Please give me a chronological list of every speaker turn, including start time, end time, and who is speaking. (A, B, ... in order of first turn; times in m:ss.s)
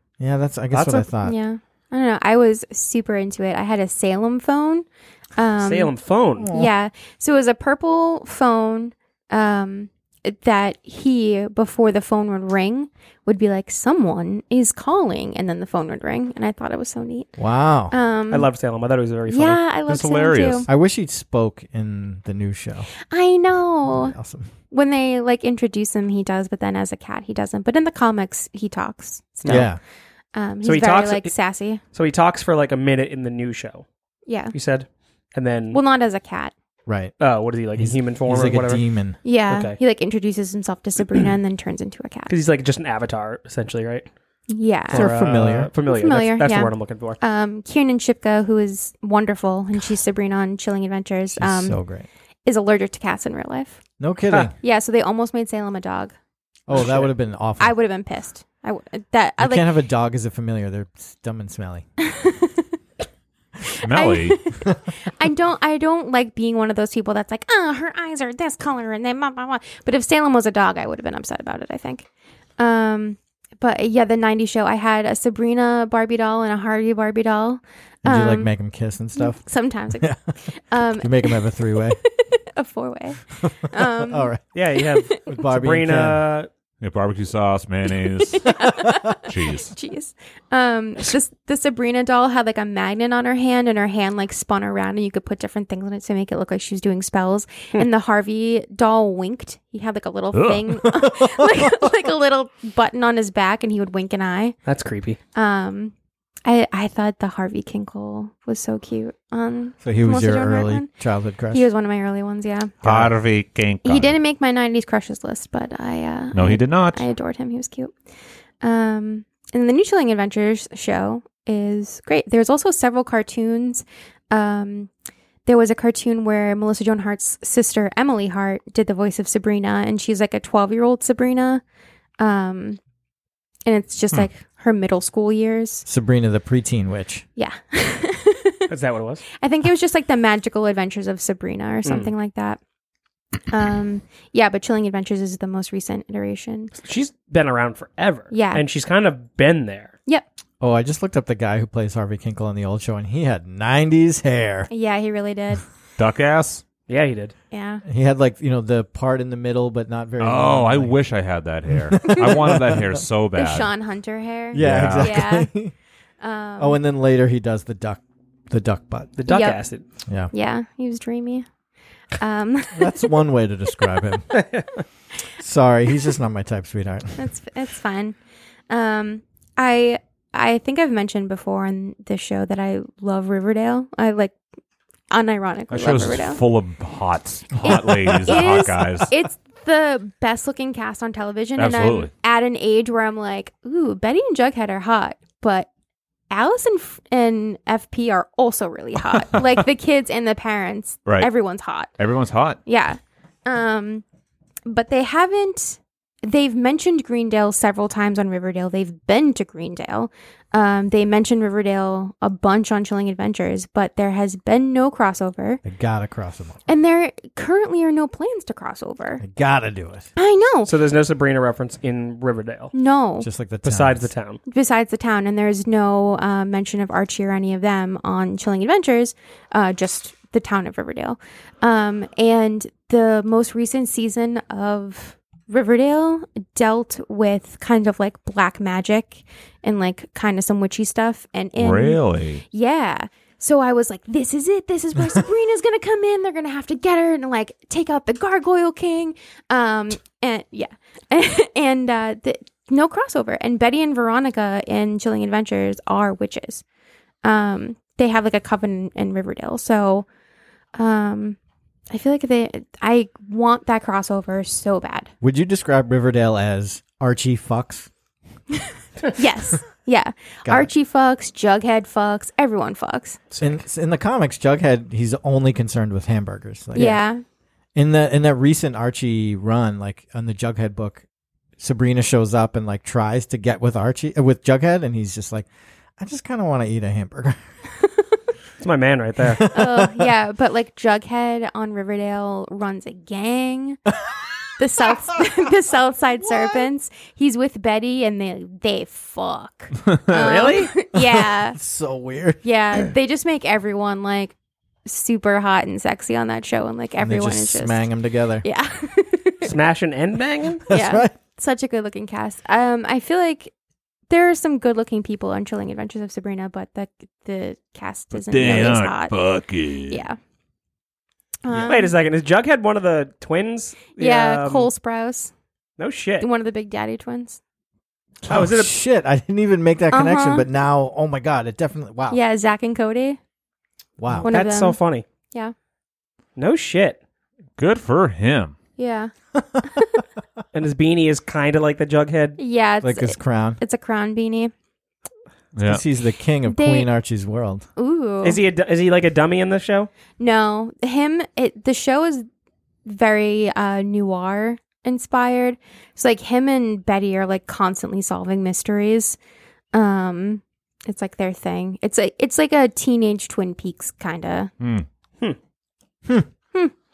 0:00.2-0:01.4 A
0:00.7-0:01.0 B
0:01.2-0:04.8 C
0:05.4-0:05.9 C
0:05.6-0:06.5 B
0:06.4-0:06.7 A
0:06.5-0:17.3 C
0:17.4-0:17.9 A
0:17.9-0:18.5 C
0:18.3-0:19.6 B
0:19.3-0:20.7 C
0:19.9-0:20.7 D
0:20.7-0:22.9 A
0:23.1-0:24.1 C
0:23.9-0:24.5 A
0:24.7-0:29.7 C
0:29.5-0:29.8 A
0:30.3-0:31.8 C
0:30.6-0:31.3 B
0:31.9-0:33.8 B
0:34.3-0:34.5 C
0:34.5-0:35.8 B
0:35.7-0:36.5 C
0:36.8-0:37.1 A
0:37.2-0:38.8 B
0:37.8-0:39.2 A
0:39.2-0:42.3 C
0:39.5-0:39.8 B
0:42.3-0:44.1 B
0:44.5-0:45.1 C
0:44.9-0:47.2 B
0:44.9-0:45.7 A
0:45.8-0:51.8 C
0:51.4-0:52.1 A
0:52.4-0:53.8 C
0:54.0-0:54.5 A
0:54.6-0:56.1 C
0:56.7-0:57.7 A
0:57.6-0:59.7 C
0:59.4-1:01.8 A
1:02.0-1:02.7 C
1:03.7-1:12.1 C
1:03.8-1:04.4 D
1:12.6-1:18.5 C
1:18.0-1:19.4 A
1:19.2-1:21.5 C
1:19.9-1:20.2 A
1:21.0-1:22.0 A
1:22.0-1:24.3 C
1:23.4-1:24.4 A
1:24.5-1:26.5 B
1:24.8-1:25.2 C
1:25.1-1:26.2 A
1:26.8-1:28.5 D
1:28.3-1:44.6 C
1:29.2-1:29.7 D
1:40.3-1:40.6 D
1:40.9-1:41.6 A
1:44.6-1:45.2 B
1:45.3-1:45.9 C
1:46.4-1:50.9 C
1:49.8-1:51.6 A
1:51.5-1:52.7 C
1:52.8-1:54.2 D
1:52.8-1:53.1 A
1:53.8-1:57.9 C
1:56.3-1:57.0 D
1:58.6-2:04.9 C
2:05.4-2:11.6 C
2:12.2-2:12.8 C
2:13.6-2:15.8 C
2:15.8-2:17.2 A
2:17.4-2:18.7 C
2:18.7-2:19.2 B
2:19.4-2:22.6 C
2:21.8-2:22.1 B
2:23.5-2:26.7 C
2:26.8-2:29.9 B
2:28.3-2:28.6 C
2:30.6-2:34.7 A
2:34.7-2:35.6 C
2:36.0-2:36.6 D
2:36.9-2:37.3 B
2:37.5-2:37.8 C
2:37.8-2:40.9 A
2:40.2-2:43.7 D
2:41.7-2:43.0 A
2:43.3-2:45.5 C
2:44.5-2:45.2 D
2:44.5-2:45.7 A
2:46.2-2:46.8 C
2:46.6-2:49.1 A
2:49.2-2:49.8 B
2:49.3-2:49.6 C
2:50.3-2:51.4 C
2:52.2-2:53.1 C
2:52.7-2:54.3 A
2:54.3-2:54.8 B
2:55.4-2:57.2 A
2:57.2-2:58.2 C
2:58.7-3:04.4 C
3:05.1-3:06.4 C
3:05.7-3:09.1 D
3:07.6-3:15.7 C
3:07.6-3:08.5 A
3:11.6-3:12.1 D
3:16.3-3:21.9 C
3:22.0-3:22.6 D
3:22.6-3:24.0 C
3:24.6-3:35.6 C
3:35.6-3:36.6 A
3:36.7-3:39.2 C
3:39.2-3:40.1 A
3:40.2-3:40.7 C
3:40.6-3:42.7 B
3:42.7-3:43.3 C
3:43.2-3:44.1 A
3:43.6-3:44.4 B
3:44.5-4:16.6 C
4:01.6-4:02.4 D
4:17.2-4:20.0 C
4:20.7-4:21.4 C
4:21.9-4:25.1 C
4:25.2-4:27.9 A
4:29.1-4:33.2 C
4:33.3-4:33.6 B
4:33.4-4:37.0 A
4:36.7-4:37.2 C
4:37.7-4:41.0 A
4:41.6-4:47.4 A
4:48.6-4:49.5 B
4:49.2-4:50.1 A
4:49.5-4:53.8 C
4:54.6-5:01.6 C
5:00.1-5:00.7 B
5:00.9-5:02.4 A
5:02.4-5:07.8 C
5:07.0-5:08.4 A
5:08.4-5:09.5 C
5:09.4-5:10.6 B
5:10.7-5:11.1 A
5:10.7-5:13.5 C
5:14.1-5:19.2 C
5:18.2-5:20.0 D
5:19.9-5:20.2 C
5:21.4-5:21.9 C
5:21.5-5:21.7 A
5:21.7-5:24.7 B
5:24.0-5:25.3 C
5:25.8-5:26.3 B
5:26.2-5:27.4 C
5:28.2-5:32.2 A
5:28.3-5:28.7 B
5:29.9-5:30.5 C
5:32.1-5:33.2 C
5:34.0-5:34.3 A
5:34.2-5:35.0 B
5:34.2-5:34.8 C
5:36.4-5:37.0 B
5:37.6-5:38.5 D
5:38.8-5:39.1 C
5:39.4-5:39.6 A
5:39.7-5:40.0 C
5:40.5-5:42.4 B
5:42.4-5:44.5 C
5:42.8-5:43.6 A
5:45.5-5:45.8 D
5:45.6-5:47.7 A
5:46.4-5:46.9 C
5:47.8-5:48.4 C
5:48.2-5:49.9 B
5:50.2-5:52.3 C
5:52.8-5:59.2 C
5:59.7-6:04.5 C
6:04.6-6:04.9 D